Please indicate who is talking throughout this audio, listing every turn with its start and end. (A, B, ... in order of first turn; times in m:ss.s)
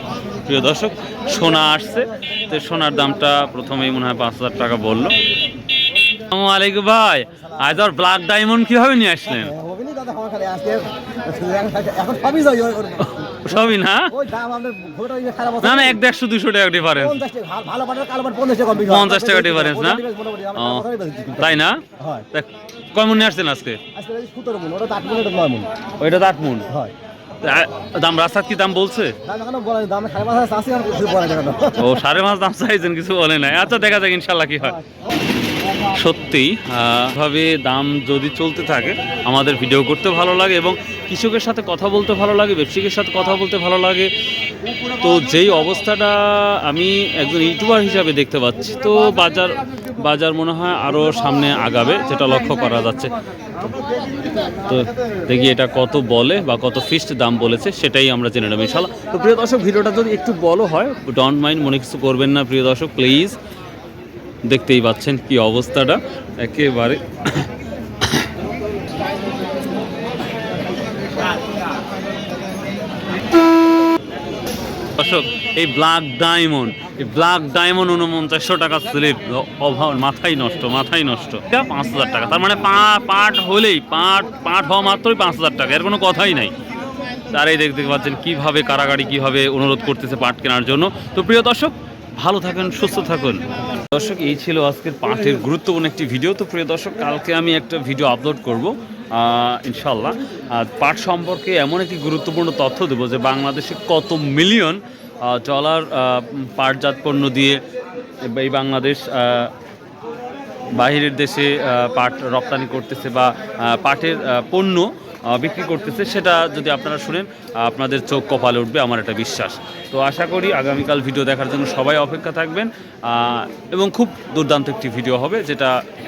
0:00.4-0:05.2 A
0:06.3-0:09.5 A
0:09.2-0:16.0 B
0:13.4-0:14.2 A
0:15.6-0:17.2 A
0:16.9-0:22.2 B
0:18.8-0:20.9 A
0:21.4-0:23.8 A
0:23.9-0:25.7 B
0:26.0-0:26.7 A
0:27.4-0:29.1 A
0:29.2-0:32.0 B
0:31.8-0:34.8 A
0:35.9-0:44.1 A
0:45.0-0:53.7 A
0:54.6-1:03.4 A
1:04.4-1:07.5 A
1:15.0-1:26.5 A
1:27.3-1:47.6 A
1:48.2-1:49.5 A
1:50.7-2:05.7 A